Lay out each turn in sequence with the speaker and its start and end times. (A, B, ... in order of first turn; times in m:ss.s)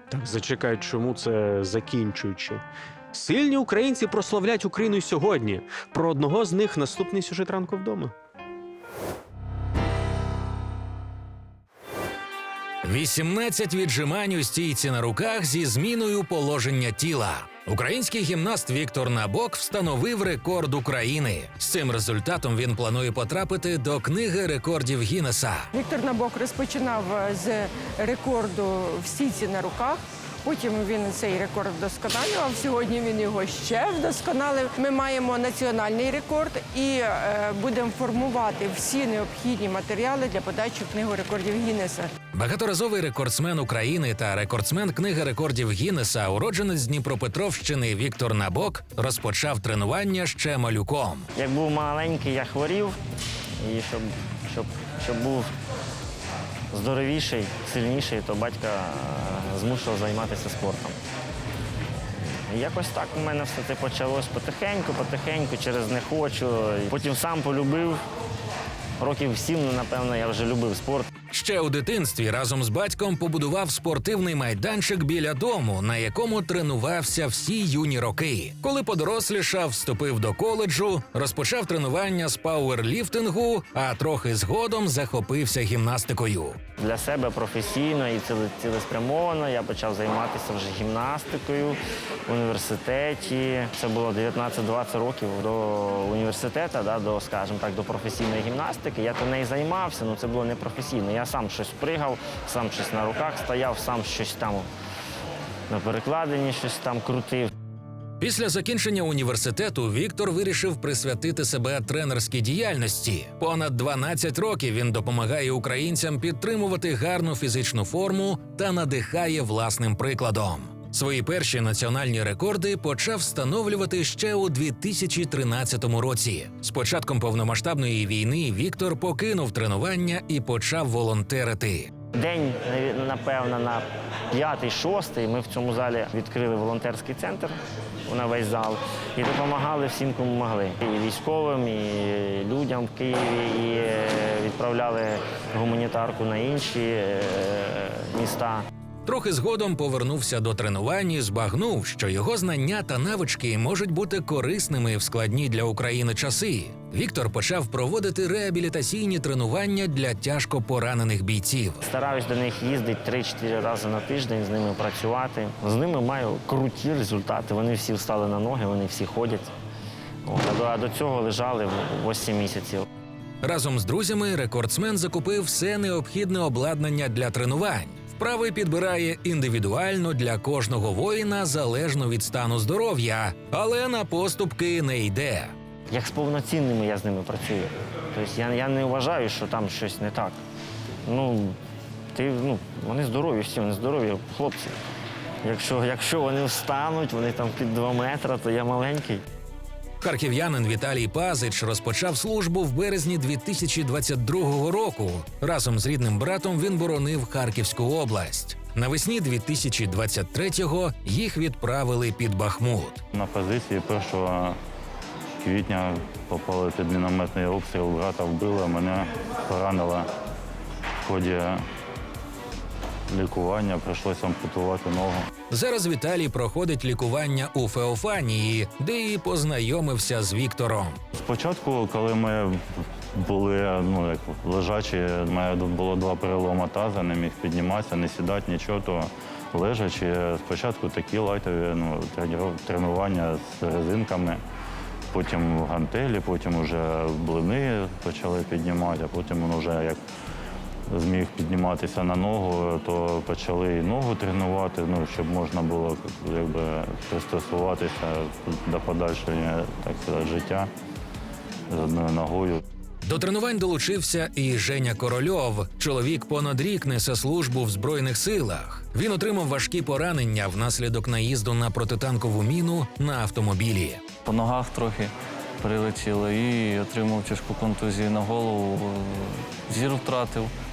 0:00.1-0:02.6 A
0:03.1-0:08.1 A
0:12.8-0:25.7 B
0:25.7-0:42.1 C
0:42.3-0:51.3 B
0:51.4-0:53.0 D
0:53.6-0:55.5 D
0:56.7-1:01.0 D
1:02.5-1:08.0 D
1:09.0-1:11.1 D
1:11.3-1:26.6 B
1:26.8-1:44.7 D
1:45.7-1:47.5 D
1:48.2-2:11.9 B
2:12.2-2:17.5 D
2:18.1-2:28.6 D
2:29.0-2:41.8 B
2:41.8-2:49.5 D
2:50.2-2:52.9 D
2:53.4-3:05.5 B
3:05.9-3:10.4 D
3:11.0-3:11.6 D
3:12.1-3:14.7 D
3:15.4-3:19.2 D
3:20.0-3:33.0 B
3:33.1-3:34.6 E
3:35.4-3:40.1 E
3:41.0-3:41.6 E
3:43.1-3:45.2 E
3:45.5-3:51.0 B
3:51.1-3:52.6 E
3:53.1-4:04.4 E
4:05.1-4:10.0 E
4:10.9-4:20.7 E
4:21.7-4:22.6 E
4:23.0-4:34.1 B
4:34.2-4:35.1 F
4:35.6-4:40.5 F